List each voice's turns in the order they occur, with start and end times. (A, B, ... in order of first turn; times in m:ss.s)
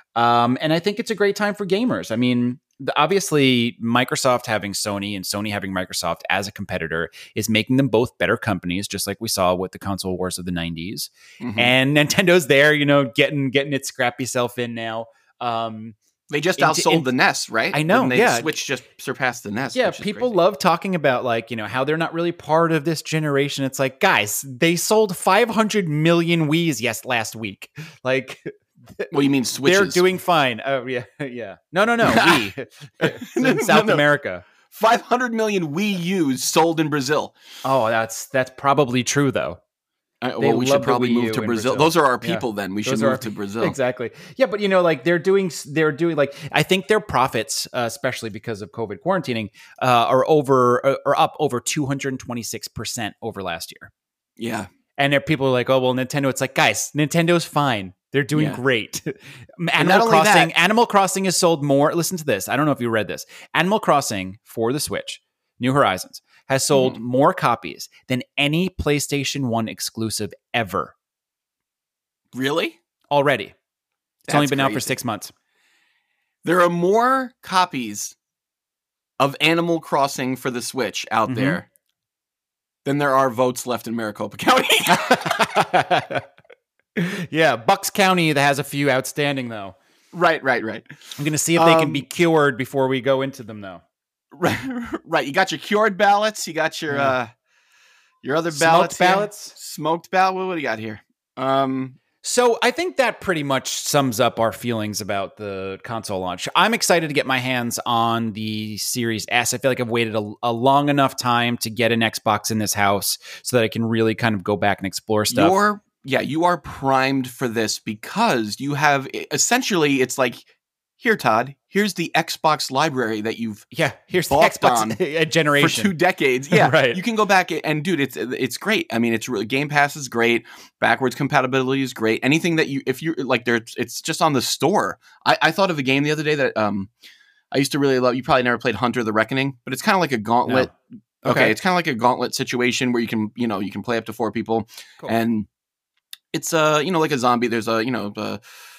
0:00.2-0:16.0 A
0:11.4-0:11.7 B
0:16.3-0:20.4 B
0:16.6-0:17.1 A
0:17.7-0:18.5 A
0:19.7-0:34.4 A
0:29.1-0:30.1 B
0:32.0-0:34.0 B
0:34.7-0:37.3 B
0:37.6-0:39.6 A
0:40.2-0:43.8 B
0:40.4-0:53.9 A
0:54.4-0:54.7 B
0:55.0-1:10.9 A
0:58.3-0:58.6 B
0:59.8-1:00.5 B
1:06.7-1:07.0 B
1:12.3-1:12.8 B
1:13.1-1:13.5 A
1:14.3-1:15.0 B
1:14.3-1:15.3 A
1:16.4-1:18.1 B
1:19.2-1:21.6 B
1:21.3-1:21.6 A
1:22.8-1:25.5 B
1:24.9-1:26.2 A
1:27.0-1:29.8 A
1:30.1-1:30.9 B
1:31.2-1:33.8 A
1:31.5-1:32.0 B
1:34.3-1:37.3 B
1:36.9-1:37.2 A
1:38.2-1:42.0 B
1:38.5-1:39.5 A
1:42.2-1:55.5 A
1:55.3-2:00.4 B
2:01.0-2:03.7 B
2:03.7-2:05.9 A
2:04.3-2:05.0 B
2:05.6-2:16.9 B
2:06.5-2:07.0 A
2:17.5-2:20.7 B
2:20.5-2:20.7 A
2:21.2-2:21.6 A
2:21.2-2:25.5 B
2:26.3-2:28.4 B